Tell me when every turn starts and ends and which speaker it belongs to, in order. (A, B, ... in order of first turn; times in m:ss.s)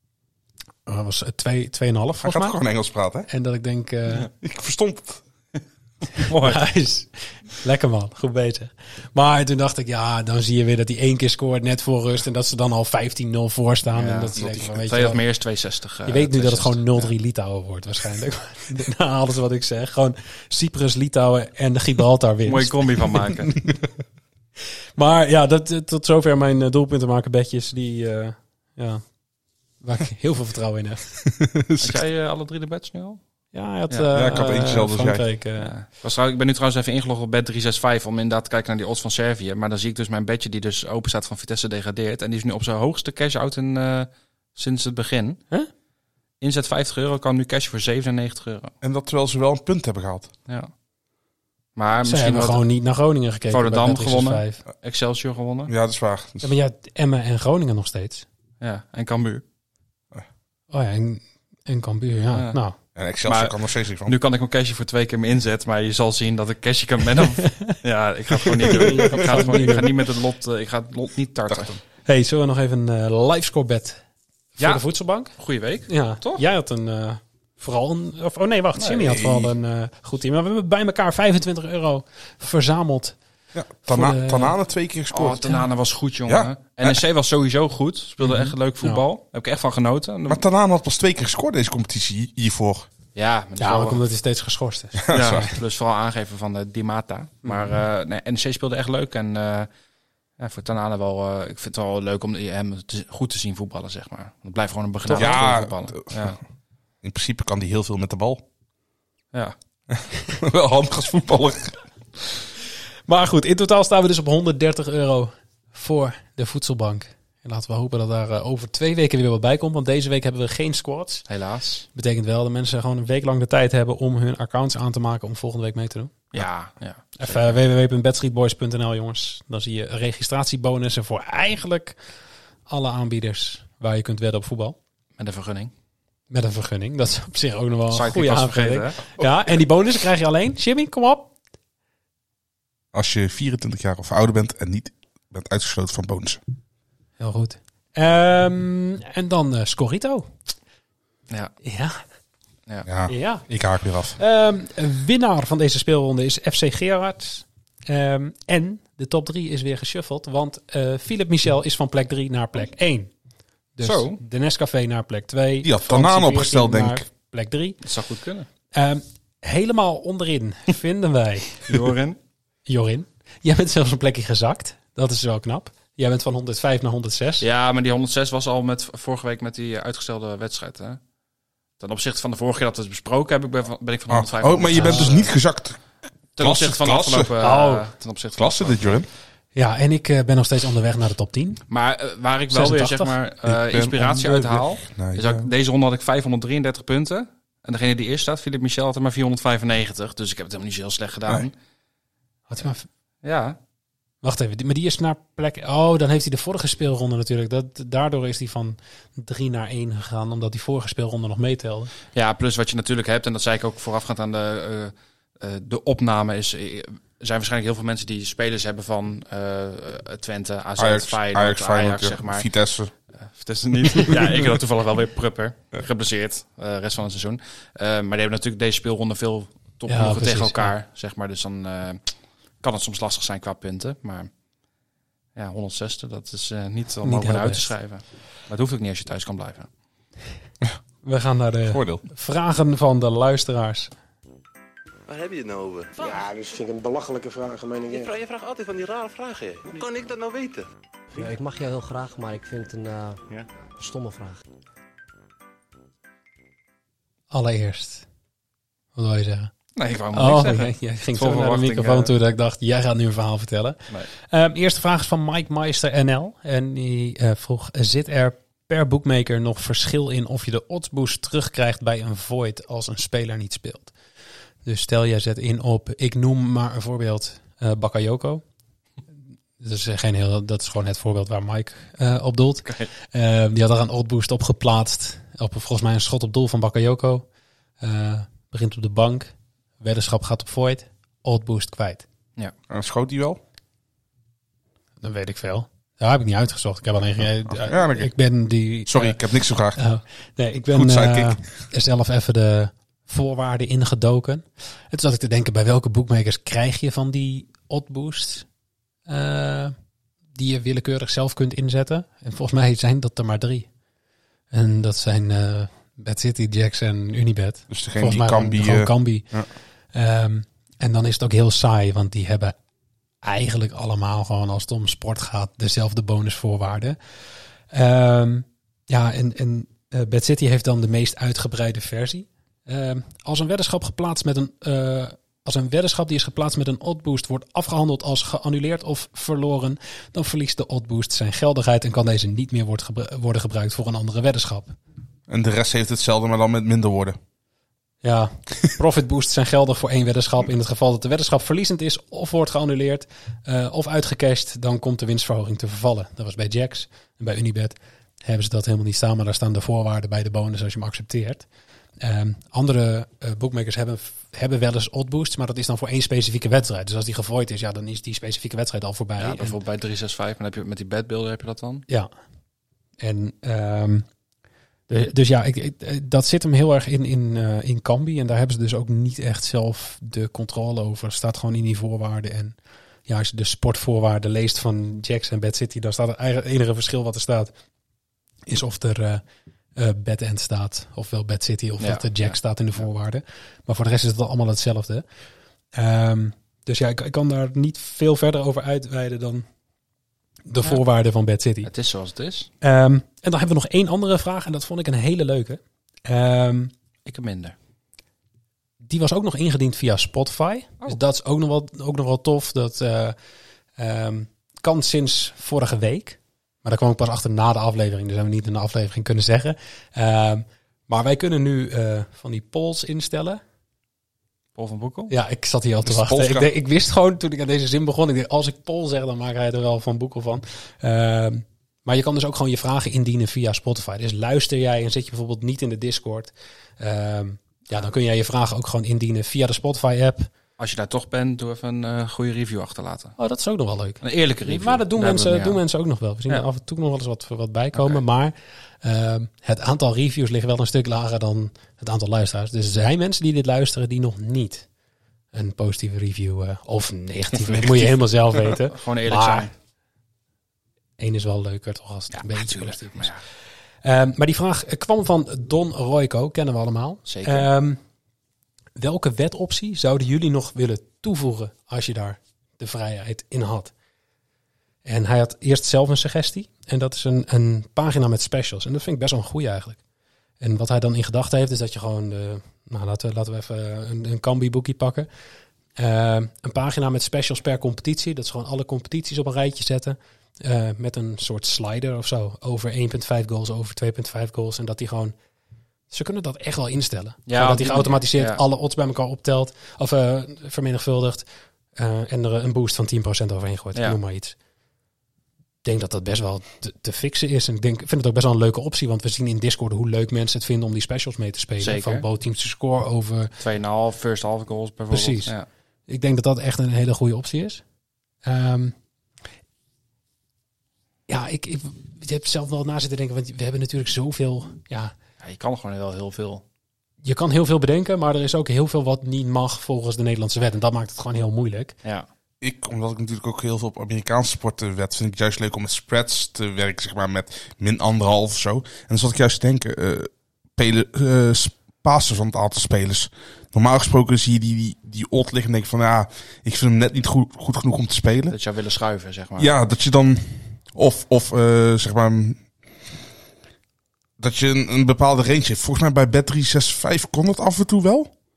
0:00.8-0:02.6 A
0:02.2-0:03.3 B
0:03.3-0:04.3 A
0:04.4-0:05.2 B
0:06.2-0:06.6 C
0:06.4-0:15.2 A
0:13.9-0:17.1 C
0:14.4-0:14.6 B
0:16.0-0:22.8 A
0:22.4-0:23.5 C
0:25.0-0:29.0 A
0:29.8-0:31.2 A
0:31.4-0:32.0 B
0:31.8-0:33.2 C
0:33.5-0:35.7 A
0:34.1-0:35.2 B
0:35.6-0:45.4 C
0:46.4-0:48.7 C
0:48.8-0:50.3 B
0:51.8-0:52.6 C
0:52.0-0:54.6 A
0:53.5-0:55.7 C
0:55.7-0:56.5 B
0:56.4-0:58.2 A
0:58.6-0:59.4 C
1:00.7-1:02.8 A
1:03.0-1:04.2 B
1:03.2-1:11.8 C
1:07.4-1:07.7 A
1:08.6-1:09.9 A
1:08.6-1:09.9 B
1:12.0-1:14.0 A
1:14.6-1:15.3 A
1:15.4-1:16.4 C
1:15.9-1:23.2 A
1:18.8-1:19.1 C
1:19.0-1:19.5 B
1:23.5-1:25.5 B
1:23.8-1:24.5 A
1:25.1-1:30.4 C
1:26.3-1:27.0 B
1:28.2-1:29.0 A
1:30.3-1:32.9 B
1:33.1-1:34.0 C
1:33.6-1:35.1 A
1:34.9-1:35.5 B
1:35.1-1:39.7 C
1:37.4-1:37.7 A
1:40.4-1:46.4 C
1:45.1-1:46.4 B
1:47.0-1:48.4 B
1:49.9-1:51.8 B
1:53.1-2:01.2 A
2:01.3-2:01.9 C
2:01.9-2:06.2 A
2:06.3-2:07.6 C
2:07.2-2:12.0 A
2:12.7-2:14.8 A
2:15.2-2:15.7 C
2:16.3-2:21.3 A
2:17.9-2:19.0 C
2:22.9-2:26.4 B
2:27.2-2:30.3 A
2:31.6-2:32.0 A
2:32.8-2:34.2 B
2:33.1-2:33.4 A
2:34.2-2:43.1 A
2:43.8-2:47.8 A
2:43.8-2:44.2 C
2:45.6-2:47.0 B
2:47.8-2:48.5 C
2:48.7-2:51.8 A
2:51.6-2:52.2 C
2:52.6-2:57.4 A
2:57.4-3:01.0 C
3:01.8-3:05.3 C
3:04.1-3:05.8 B
3:04.7-3:05.2 A
3:06.4-3:09.0 C
3:06.4-3:07.3 B
3:07.4-3:07.9 A
3:08.4-3:09.1 B
3:09.5-3:11.6 A
3:11.7-3:21.5 C
3:12.5-3:13.1 A
3:13.4-3:15.5 B
3:22.5-3:22.9 A
3:23.2-3:23.6 C
3:24.2-3:31.9 A
3:32.1-3:42.5 C
3:40.8-3:42.9 B
3:43.2-3:52.0 C
3:43.9-3:44.3 B
3:49.9-3:50.7 A
3:52.6-3:54.3 C
3:55.4-3:59.7 C
3:57.0-3:57.7 A
4:01.0-4:03.9 A
4:01.7-4:02.0 B
4:05.1-4:06.3 D
4:06.0-4:08.0 E
4:07.8-4:10.6 D
4:11.1-4:13.2 F
4:13.8-4:14.4 F
4:17.3-4:18.0 A
4:18.9-4:19.5 A
4:19.8-4:22.1 C
4:20.1-4:33.9 A
4:34.6-4:38.4 A
4:39.6-4:47.2 A
4:47.8-4:52.0 A
4:52.7-4:53.4 B
4:55.0-4:59.2 A
4:57.4-4:58.1 B
4:58.9-4:59.8 B
4:59.8-5:08.4 A
5:00.7-5:01.4 B
5:09.1-5:09.7 A
5:10.3-5:13.7 A
5:14.5-5:19.3 A
5:17.7-5:19.5 B
5:19.9-5:22.6 A
5:23.2-5:27.0 A
5:27.7-5:44.7 A
5:45.3-5:47.2 B
5:48.0-6:01.4 A
6:02.0-6:09.6 A
6:09.2-6:11.8 C
6:13.0-6:14.0 A
6:14.9-6:22.6 A
6:23.1-6:27.5 A
6:28.5-6:29.2 A
6:29.8-6:35.0 A
6:31.8-6:32.3 C
6:35.7-6:39.4 A
6:40.5-6:41.7 A
6:41.6-6:42.5 C
6:42.6-6:46.7 A
6:47.0-6:47.5 C
6:48.8-6:53.1 A
6:53.8-7:03.4 A
7:04.6-7:05.1 C
7:05.1-7:20.3 A
7:05.8-7:06.5 B
7:20.6-7:23.2 C
7:23.2-7:34.6 A
7:24.0-7:25.6 C
7:27.7-7:28.0 C
7:35.3-7:39.5 A
7:37.5-7:39.5 C
7:41.0-7:43.1 A
7:42.1-7:43.2 C
7:43.8-7:47.8 A
7:47.0-7:47.5 C
7:48.8-7:53.7 A
7:54.8-7:59.8 A
8:00.4-8:05.1 A
8:05.8-8:15.1 A
8:15.9-8:24.4 A
8:17.3-8:18.4 C
8:25.6-8:33.3 A
8:31.6-8:32.0 C
8:33.4-8:35.4 C
8:34.9-8:35.3 A
8:35.9-8:37.6 A
8:38.2-8:38.7 A
8:41.1-8:44.9 A
8:45.2-8:46.4 C
8:47.0-8:51.8 A
8:52.4-9:08.4 B
9:08.3-9:09.5 C
9:09.4-9:12.4 B
9:14.2-9:18.1 B